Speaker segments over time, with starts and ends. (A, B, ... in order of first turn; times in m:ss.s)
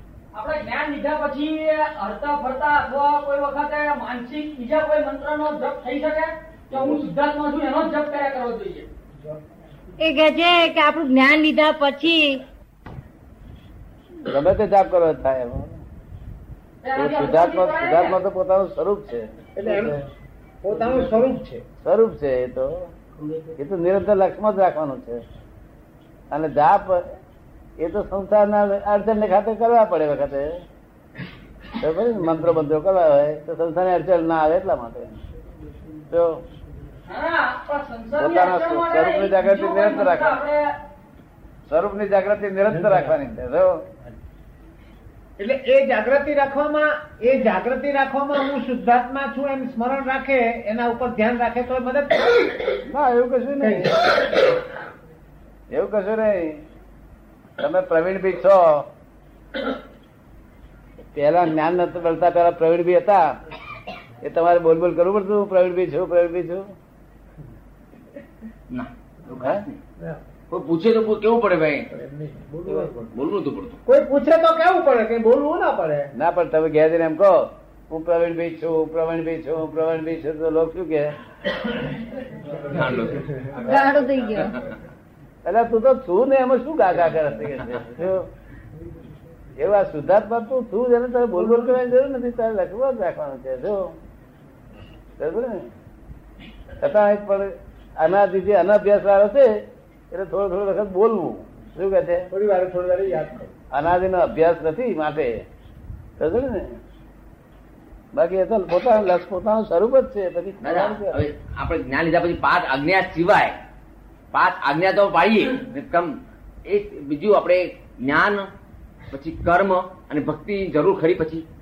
0:00.3-0:08.9 A
0:10.0-0:12.4 B
0:14.2-0:15.8 C
0:16.8-0:18.2 A
0:17.0-0:20.0 C
0:19.6-0:20.0 D
0:20.6-0:21.6 D
0:21.8-0:22.9 C
0:23.6-0:25.2 C
0:26.3-0:27.2 C
0:27.8-0:30.6 C
0:31.8-0:35.2 C
0:36.1-0:36.4 C
0:37.1-0:40.7 A
0:38.2-0:40.4 C
0:41.7-0:43.8 C
0:45.4-0:52.6 D
0:52.9-0:54.0 C
0:53.6-0:53.9 D
0:55.7-0:56.6 C
0:57.6-0:58.9 C
1:01.2-1:03.4 C
1:04.2-1:06.7 C
1:08.7-1:09.8 E
1:09.4-1:09.6 C
1:10.5-1:11.9 E
1:11.9-1:13.1 D
1:12.7-1:13.8 E
1:13.9-1:16.1 D
1:16.2-1:21.1 C
1:22.7-1:23.3 E
1:23.6-1:24.6 B
1:25.4-1:28.3 C
1:29.6-1:33.9 C
1:35.2-1:35.7 C
1:36.8-1:42.3 C
1:42.3-1:43.5 D
1:43.7-1:45.4 C
1:46.2-1:46.8 C
1:48.1-1:51.2 C
1:50.6-1:53.5 E
1:54.3-1:56.2 E
1:56.7-1:58.5 E
1:59.1-2:01.4 E